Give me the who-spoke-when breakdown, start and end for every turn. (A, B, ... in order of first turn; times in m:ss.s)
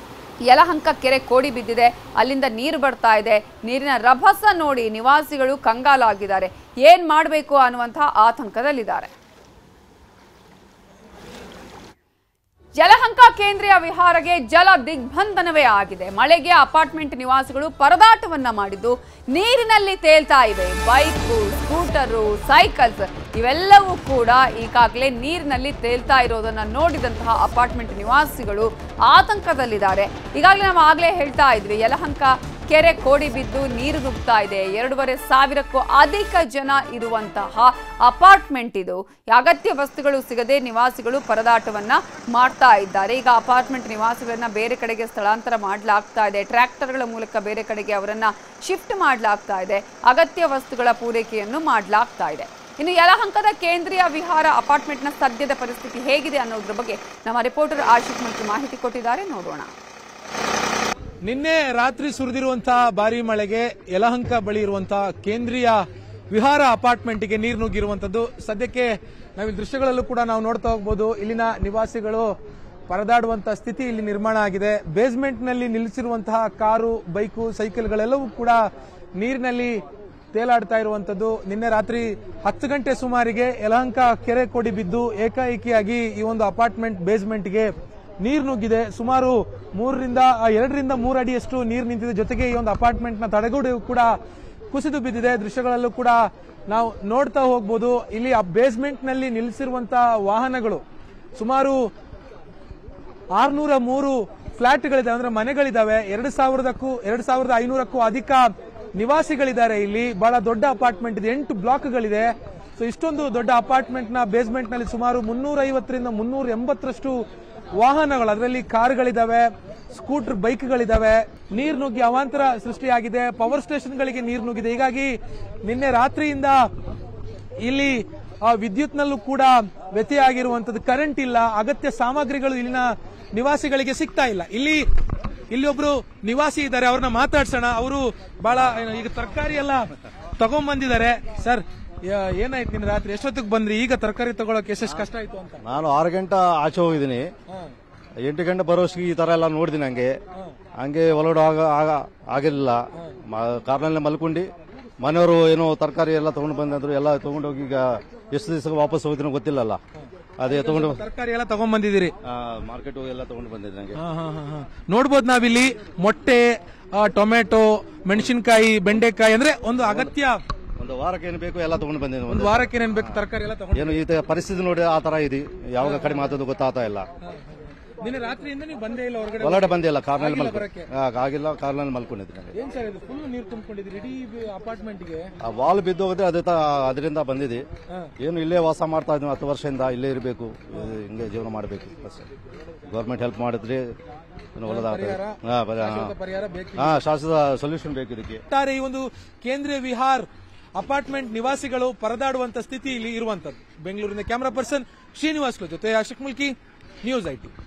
0:00.4-0:09.1 A
0:12.8-0:59.7 A
1:01.2-1:12.3 B
1:12.9-1:18.6 B
1:19.2-1:34.2 B
1:34.7-1:40.8 B
1:41.4-1:41.8 B
1:43.3-1:57.2 B
1:57.8-2:06.7 B
2:07.6-2:14.8 B
2:15.5-2:25.6 B
2:25.6-2:27.2 C
2:28.2-2:30.1 C
2:30.8-2:34.5 C
2:35.0-2:39.8 C
2:40.4-2:41.0 C
2:40.5-2:42.1 B
2:42.2-2:44.0 C
2:44.0-2:50.4 B
2:49.8-2:50.1 C
2:50.8-2:53.2 C
2:52.3-2:54.0 B
2:53.7-2:57.1 C
2:55.8-2:56.4 B
2:58.0-3:00.9 B
2:59.4-3:02.5 C
3:02.5-3:05.3 B
3:05.4-3:07.6 C
3:08.2-3:12.3 C
3:12.8-3:13.8 C
3:14.6-3:16.1 C
3:14.6-3:17.0 B
3:16.8-3:18.4 C
3:18.5-3:27.5 B